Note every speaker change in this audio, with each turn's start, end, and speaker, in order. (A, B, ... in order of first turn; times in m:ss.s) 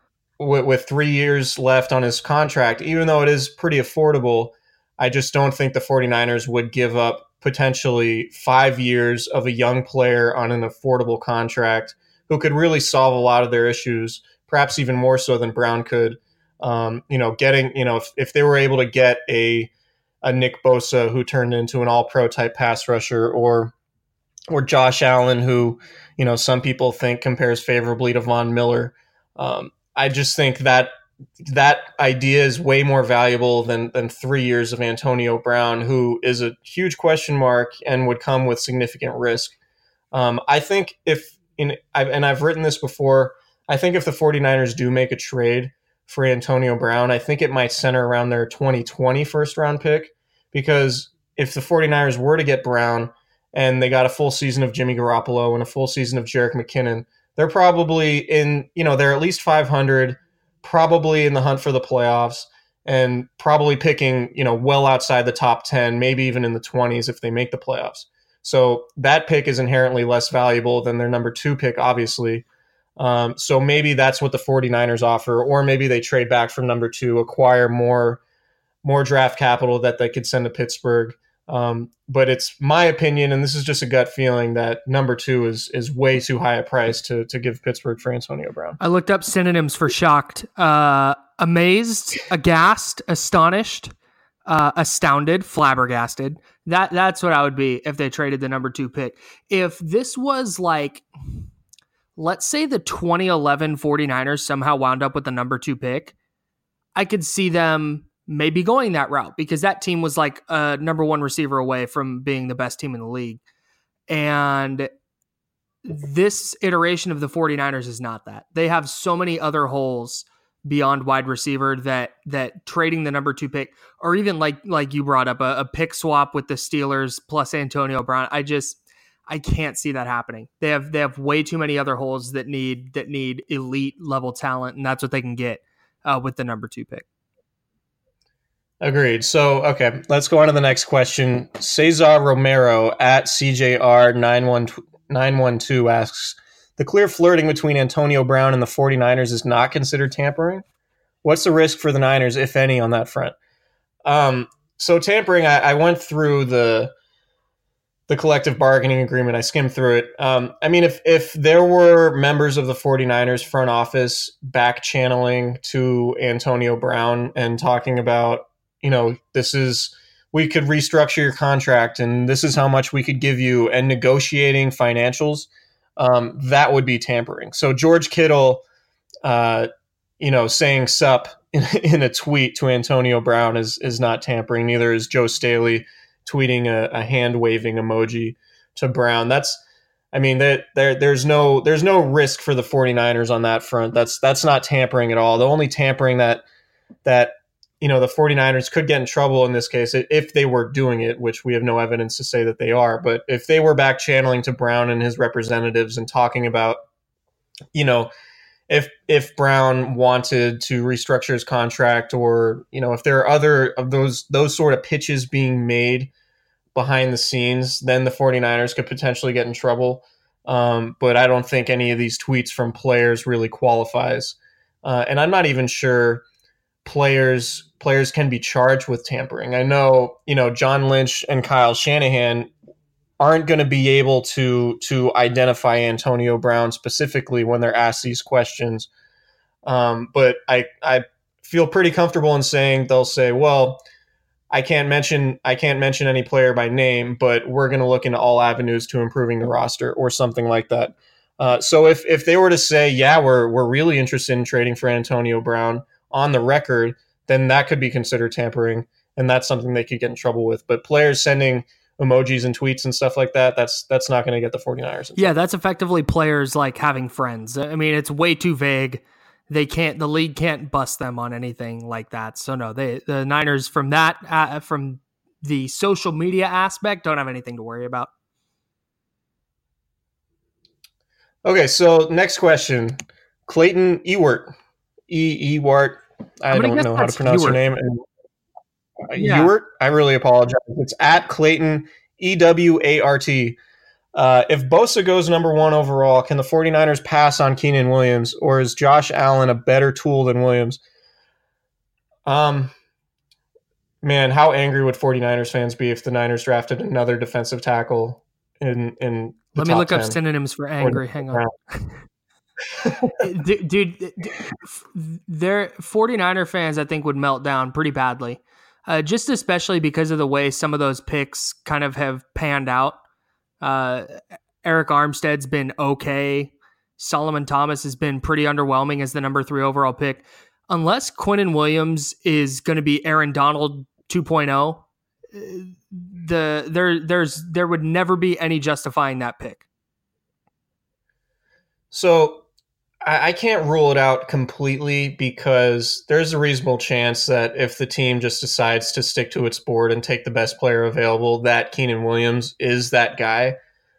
0:00.4-0:19.7 A
0:20.2-0:23.7 A
0:24.5-0:39.5 A
0:40.1-1:12.4 A
1:13.0-1:18.2 A
1:18.8-1:28.8 A
1:28.8-1:33.9 B
1:34.4-1:41.0 B
1:42.2-1:46.1 B
1:46.9-1:53.4 B
1:54.1-1:54.9 B
1:55.8-2:17.0 B
2:18.8-2:30.6 A
2:31.2-2:33.3 A
2:34.0-2:36.9 A
2:38.1-2:58.6 A
2:59.2-2:59.7 A
3:00.2-3:09.6 A
3:10.1-3:16.4 A
3:17.0-3:26.8 A
3:27.7-3:28.1 A
3:28.7-3:36.1 A
3:36.7-3:46.2 A
3:46.8-3:52.5 A
3:53.2-3:58.9 A
3:59.6-4:03.8 A
4:04.5-4:25.3 A
4:25.2-4:38.1 B
4:41.4-4:44.5 A
4:45.1-4:48.0 A
4:46.5-4:47.6 B
4:49.1-4:53.6 A
4:49.1-4:49.5 B
4:54.1-5:00.8 A
5:02.2-5:02.7 A
5:04.0-5:10.2 A
5:09.6-5:12.0 B
5:10.8-5:11.5 A
5:12.8-5:13.1 A
5:13.2-5:23.0 B
5:23.6-5:39.6 B
5:41.9-5:42.4 A
5:43.0-5:53.6 A